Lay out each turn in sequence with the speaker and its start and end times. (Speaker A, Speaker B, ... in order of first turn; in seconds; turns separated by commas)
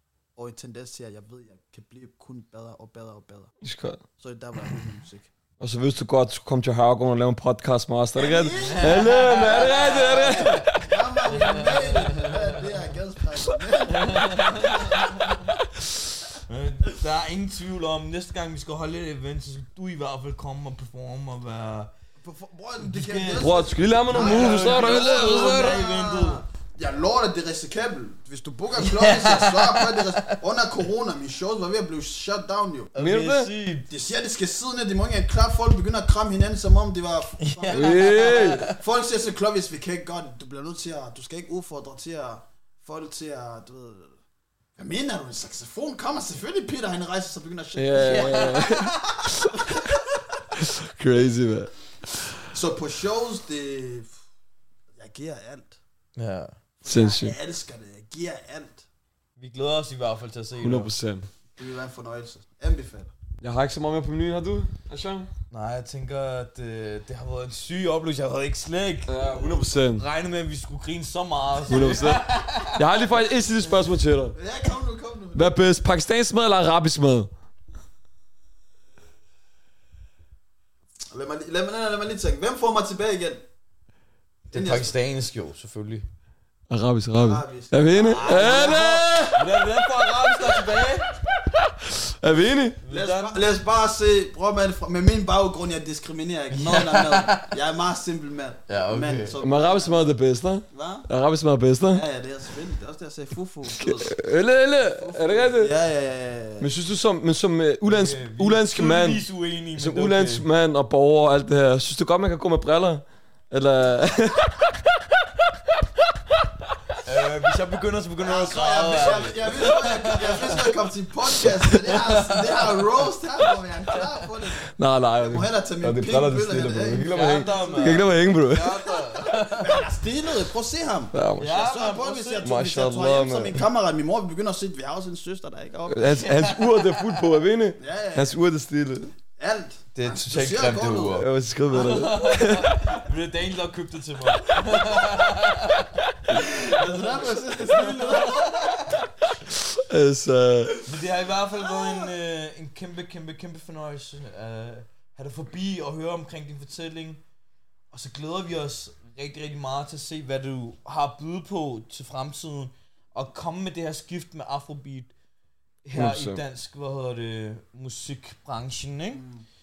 Speaker A: 0.4-3.5, Speaker B: 3.6-4.0, Speaker A: 4.2-5.3, Speaker B: 5.6-10.9, Speaker A: 8.2-15.3, Speaker C: 8.7-12.8, Speaker C: 14.0-15.4, Speaker C: 16.5-21.9, Speaker A: 22.2-32.9, Speaker C: 22.8-26.4, Speaker B: 23.4-25.8, Speaker C: 28.8-30.3, Speaker C: 33.0-33.9, Speaker B: 33.0-33.5, Speaker A: 33.9-44.2, Speaker C: 37.4-38.8, Speaker B: 37.7-38.6, Speaker A: 44.8-50.0, Speaker B: 47.8-49.9, Speaker C: 48.0-49.0, Speaker B: 50.6-52.4, Speaker A: 52.5-54.1, Speaker A: 54.9-55.8, Speaker C: 56.2-56.6, Speaker A: 56.8-58.9, Speaker B: 56.9-57.3, Speaker C: 59.4-60.9, Speaker B: 60.6-61.3, Speaker A: 61.6-63.1, Speaker B: 63.4-65.3, Speaker C: 65.5-72.8, Speaker B: 69.1-70.1, Speaker B: 71.7-74.4, Speaker A: 71.7-72.2, Speaker A: 74.3-75.6, Speaker B: 75.3-77.3, Speaker A: 81.1-83.4, Speaker A: 84.5-84.9, Speaker C: 84.5-86.1, Speaker B: 86.7-89.5, Speaker A: 87.2-89.2, Speaker C: 88.1-91.1, Speaker B: 91.9-92.8, Speaker C: 92.8-93.4, Speaker A: 92.9-101.1, Speaker C: 96.5-97.5, Speaker C: 98.7-99.4, Speaker B: 99.4-102.0, Speaker A: 101.9-104.2, Speaker B: 103.8-105.7, Speaker A: 104.8-106.7, Speaker B: 106.6-115.0, Speaker C: 107.8-110.5, Speaker C: 117.0-120.7, Speaker A: 118.2-124.7, Speaker C: 121.6-122.9, Speaker B: 124.8-128.9, Speaker A: 125.2-128.1, Speaker C: 127.0-129.8, Speaker A: 129.2-136.3, Speaker B: 131.1-131.6, Speaker C: 131.4-132.5, Speaker B: 132.4-133.7, Speaker B: 135.9-139.1, Speaker C: 136.2-137.2, Speaker A: 137.8-138.4, Speaker A: 139.3-141.3, Speaker C: 139.9-146.0, Speaker B: 141.2-142.9, Speaker A: 146.3-149.0, Speaker C: 148.0-148.9, Speaker B: 149.6-150.8, Speaker C: 150.9-157.2, Speaker C: 157.9-165.1, Speaker C: 165.8-169.2, Speaker B: 165.9-166.4, Speaker A: 169.1-169.5